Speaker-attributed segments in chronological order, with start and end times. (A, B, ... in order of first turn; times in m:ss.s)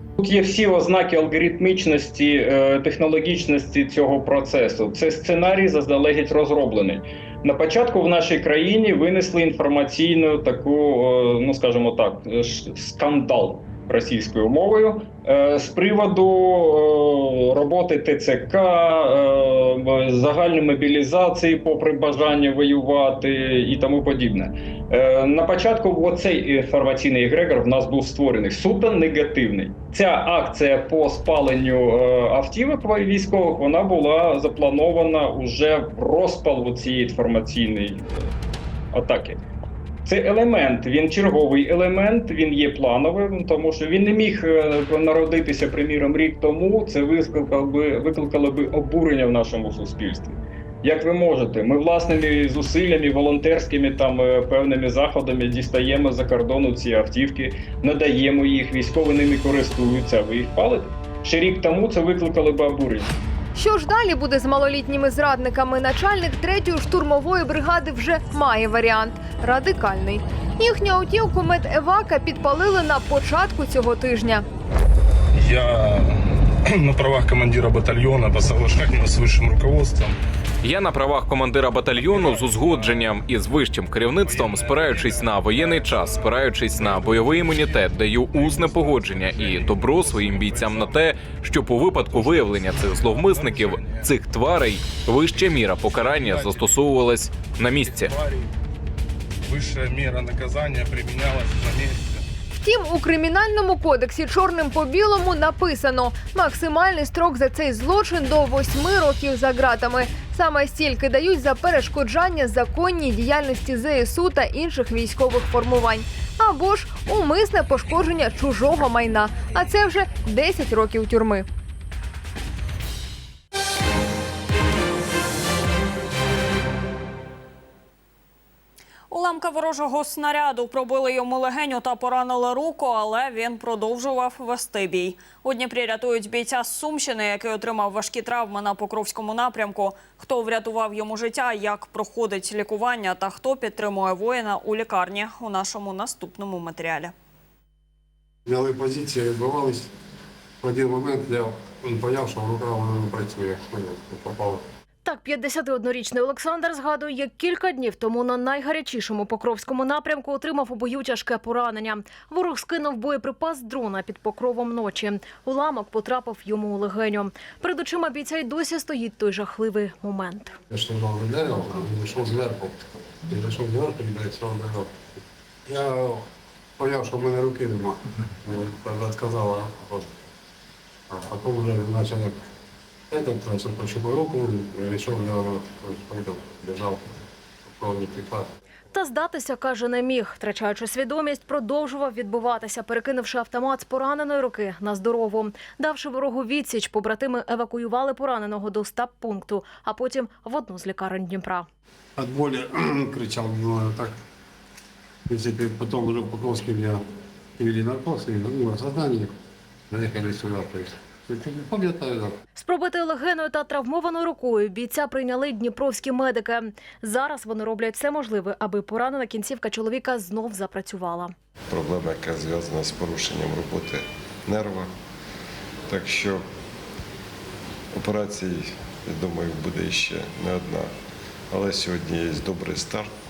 0:00.2-0:38.2 A
0:38.9-0:39.4 A
0:40.1-1:03.1 A
1:03.6-1:14.4 B
1:15.3-1:20.2 C
1:20.6-1:38.1 D
1:21.9-1:23.2 C
1:24.2-1:31.1 C
1:32.0-1:34.1 C
1:35.4-1:36.8 C
1:37.8-1:38.5 C
1:39.5-1:42.2 C
1:42.6-2:01.4 B
2:09.1-2:27.1 E
2:28.5-2:29.9 F
2:30.6-2:34.6 F
2:35.0-2:50.6 G
2:50.7-2:54.9 F
2:55.7-2:56.3 F
2:56.8-3:00.1 F
3:01.1-3:02.4 F
3:03.1-3:07.1 F
3:07.7-3:08.5 F
3:08.9-3:21.7 G
3:22.2-3:24.1 F
3:25.3-3:27.0 F
3:27.6-3:29.3 F
3:29.9-3:32.4 F
3:32.6-3:41.3 G
3:41.7-3:44.9 H
3:45.9-3:46.4 H
3:47.9-3:50.9 H
3:51.5-3:53.1 H